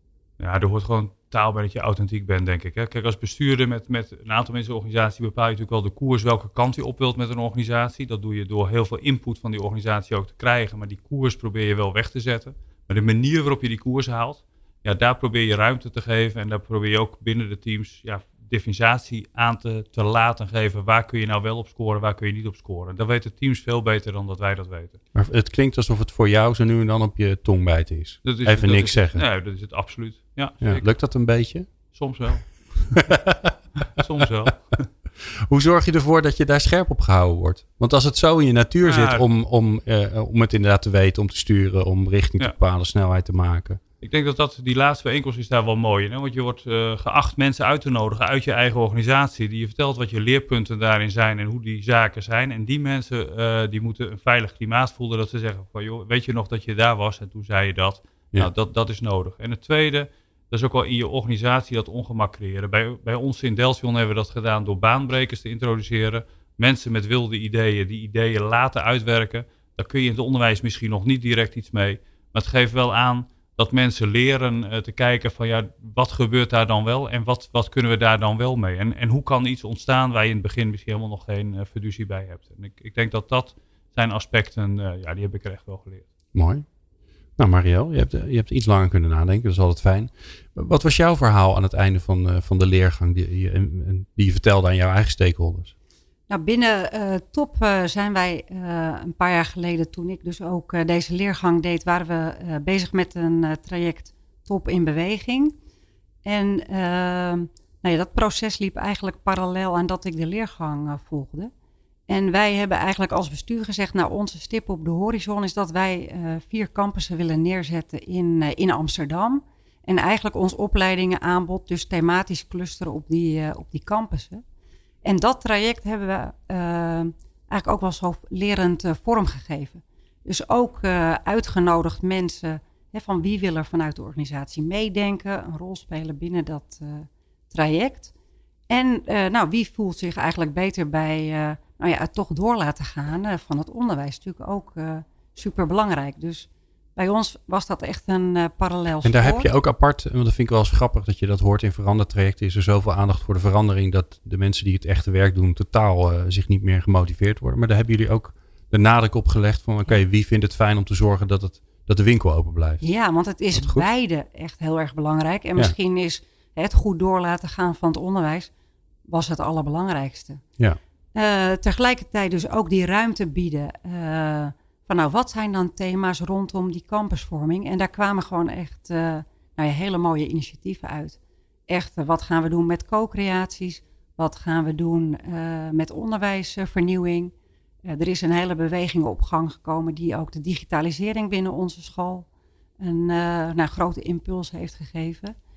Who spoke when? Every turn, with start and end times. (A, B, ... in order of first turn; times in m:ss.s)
0:00.4-0:25.0 A
0:25.2-0:29.2 B
0:28.2-0:30.8 A
0:30.6-0:31.7 B
0:31.9-0:33.2 A
0:33.1-0:33.5 B
0:33.8-0:34.9 A
0:35.5-0:43.8 B
0:38.8-0:39.2 A
0:44.0-1:26.1 A
1:26.3-1:26.6 B
1:27.4-1:35.7 B
1:36.3-1:45.6 C
1:46.3-1:51.5 C
1:52.1-2:04.4 C
2:05.0-2:18.1 C
2:18.7-2:29.5 C
2:29.0-2:42.8 B
2:42.8-2:48.5 C
2:43.5-2:43.9 B
2:49.1-2:50.4 C
2:51.2-3:01.2 C
3:01.7-3:07.3 C
3:07.9-3:12.3 C
3:12.8-3:15.4 C